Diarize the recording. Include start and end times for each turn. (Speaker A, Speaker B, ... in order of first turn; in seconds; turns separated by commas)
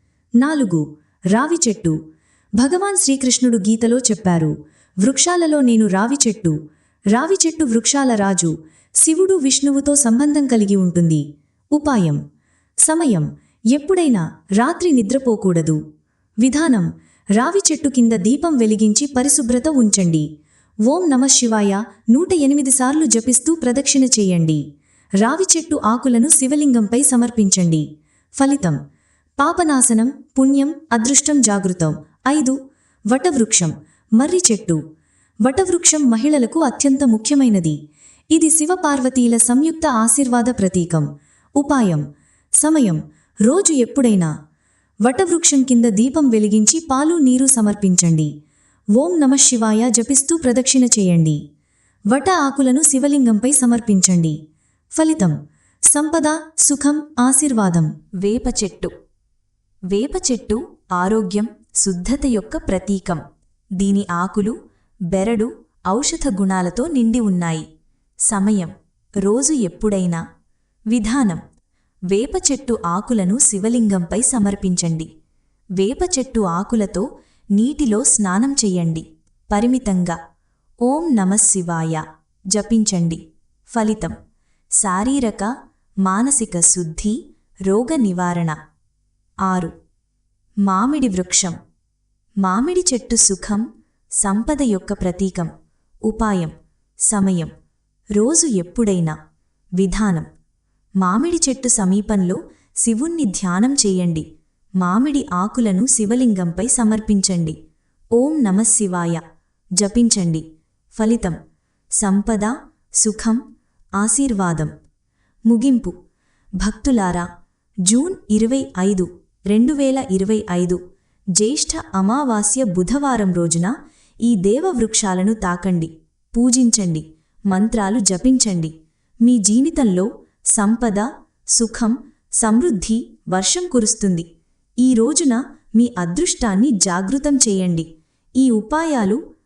Speaker A: 0.4-2.0, Speaker A: 2.6-6.6, Speaker A: 7.1-11.2, Speaker A: 11.8-12.2, Speaker A: 12.8-15.8, Speaker A: 16.4-20.3, Speaker A: 20.9-24.6, Speaker A: 25.2-27.9, Speaker A: 28.4-28.8, Speaker A: 29.4-32.6, Speaker A: 33.1-34.8, Speaker A: 35.4-37.8, Speaker A: 38.3-42.0, Speaker A: 42.6-44.3, Speaker A: 45.0-48.3, Speaker A: 49.0-51.4, Speaker A: 52.1-54.4, Speaker A: 55.0-55.4, Speaker A: 55.9-58.9, Speaker A: 59.9-63.2, Speaker A: 63.8-64.5, Speaker A: 65.1-67.7, Speaker A: 68.3-70.2, Speaker A: 70.9-71.4, Speaker A: 72.1-75.1, Speaker A: 75.8-80.2, Speaker A: 80.8-84.2, Speaker A: 84.8-88.6, Speaker A: 89.4-89.7, Speaker A: 90.7-91.6, Speaker A: 92.4-93.7, Speaker A: 94.2-95.5, Speaker A: 96.1-96.5, Speaker A: 97.1-97.5, Speaker A: 98.2-99.2, Speaker A: 99.8-100.3, Speaker A: 101.0-104.3, Speaker A: 104.8-107.6, Speaker A: 108.2-109.2, Speaker A: 109.8-111.4, Speaker A: 112.0-113.4, Speaker A: 114.0-114.7, Speaker A: 115.5-115.9, Speaker A: 116.6-117.3, Speaker A: 117.9-120.8, Speaker A: 121.4-123.7, Speaker A: 124.2-128.7, Speaker A: 129.2-134.3, Speaker A: 134.8-137.9, Speaker A: 138.4-139.2